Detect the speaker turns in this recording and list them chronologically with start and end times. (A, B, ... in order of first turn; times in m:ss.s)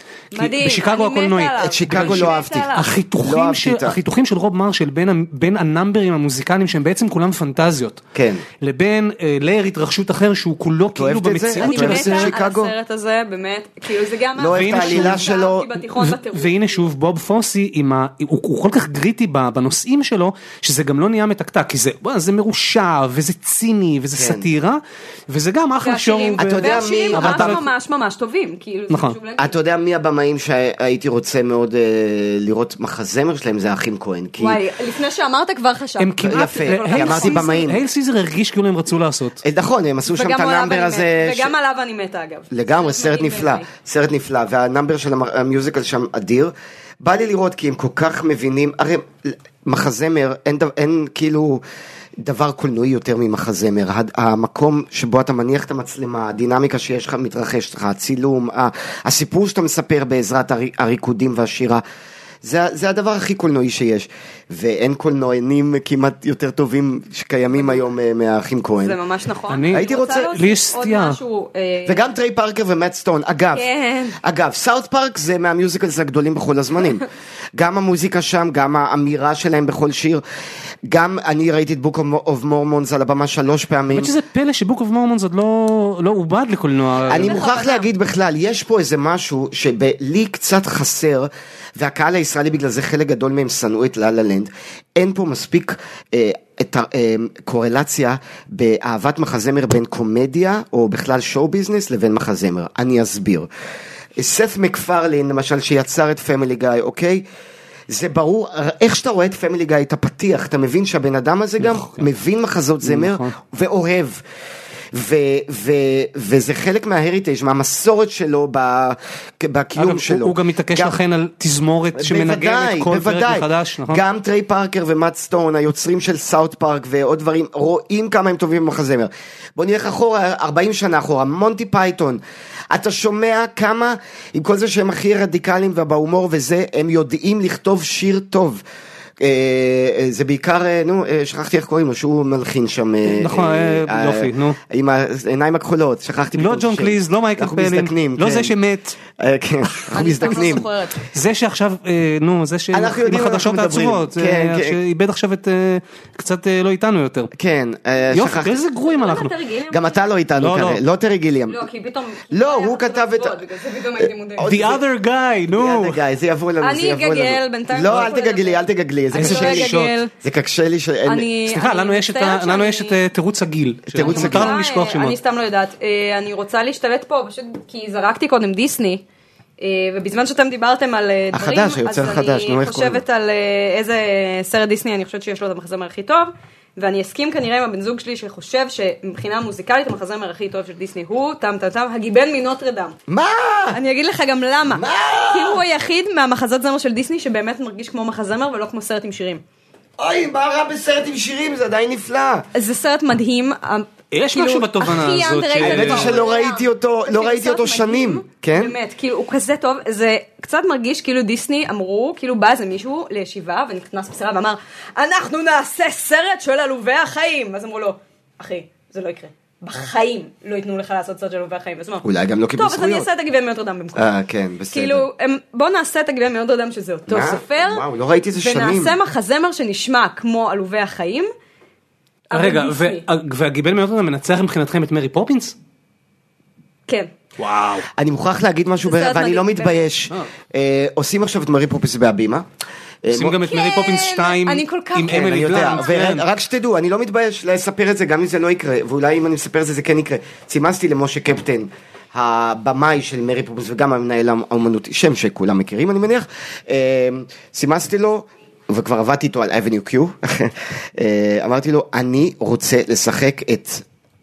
0:00.3-0:03.0 A
0:00.3-0:08.0 B
0:01.6-0:04.0 C
0:08.2-0:08.4 C
0:08.6-0:12.4 B
0:11.0-0:12.7 C
0:11.6-0:16.9 A
0:14.4-0:15.7 C
0:14.5-0:15.2 B
0:16.0-0:27.6 B
0:24.1-0:24.5 C
0:25.8-0:29.5 A
0:26.4-0:27.6 C
0:28.9-0:29.2 B
0:29.4-0:34.6 C
0:34.4-0:37.8 A
0:36.0-0:39.4 B
0:36.2-0:37.8 C
0:39.4-0:41.5 C
0:40.1-0:43.7 A
0:42.5-0:51.6 C
0:52.2-1:01.8 C
1:02.4-1:09.0 C
1:08.8-1:12.0 A
1:09.5-1:11.2 B
1:09.7-1:10.3 C
1:11.9-1:13.7 C
1:13.5-1:14.2 A
1:14.2-1:17.0 C
1:17.6-1:20.2 C
1:20.9-1:24.1 C
1:24.0-1:27.4 B
1:27.0-1:27.9 A
1:27.1-1:43.5 C
1:44.2-1:47.2 C
1:47.9-1:54.2 C
1:51.6-1:52.0 B
1:52.8-1:53.3 B
1:54.9-2:01.0 C
1:59.8-2:04.0 B
2:02.0-2:18.6 C
2:19.2-2:28.5 C
2:23.1-2:24.6 B
2:26.4-2:29.0 B
2:29.2-2:30.7 C
2:29.9-2:31.0 A
2:31.1-2:37.3 B
2:32.7-2:34.8 C
2:37.4-2:38.6 C
2:38.1-2:39.3 B
2:38.8-2:40.0 A
2:39.7-2:41.6 C
2:40.4-2:40.8 B
2:41.5-2:44.7 A
2:42.3-2:43.4 C
2:44.0-2:44.8 C
2:44.4-2:46.0 B
2:45.5-2:51.3 C
2:46.6-2:48.6 A
2:49.1-2:50.0 B
2:49.2-2:50.1 A
2:51.0-2:53.0 A
2:51.4-2:55.2 B
2:53.9-2:54.6 C
2:54.0-2:59.0 A
2:59.6-3:13.0 A
3:01.3-3:03.0 C
3:13.1-3:13.8 C
3:13.7-3:19.4 A
3:14.7-3:15.6 C
3:20.0-3:22.4 C
3:22.6-3:42.0 A
3:24.1-3:26.2 B
3:25.6-3:28.8 C
3:42.0-3:43.1 C
3:42.6-3:44.1 A
3:44.0-3:45.1 C
3:44.7-3:47.8 A
3:47.1-3:49.0 C
3:48.4-3:51.3 A
3:52.3-3:53.0 A
3:52.3-3:55.6 B
3:57.4-3:57.9 B
3:58.0-4:02.5 C
3:58.8-3:59.8 A
4:03.0-4:03.4 C
4:03.1-4:06.2 B
4:03.5-4:06.2 A
4:05.1-4:23.8 C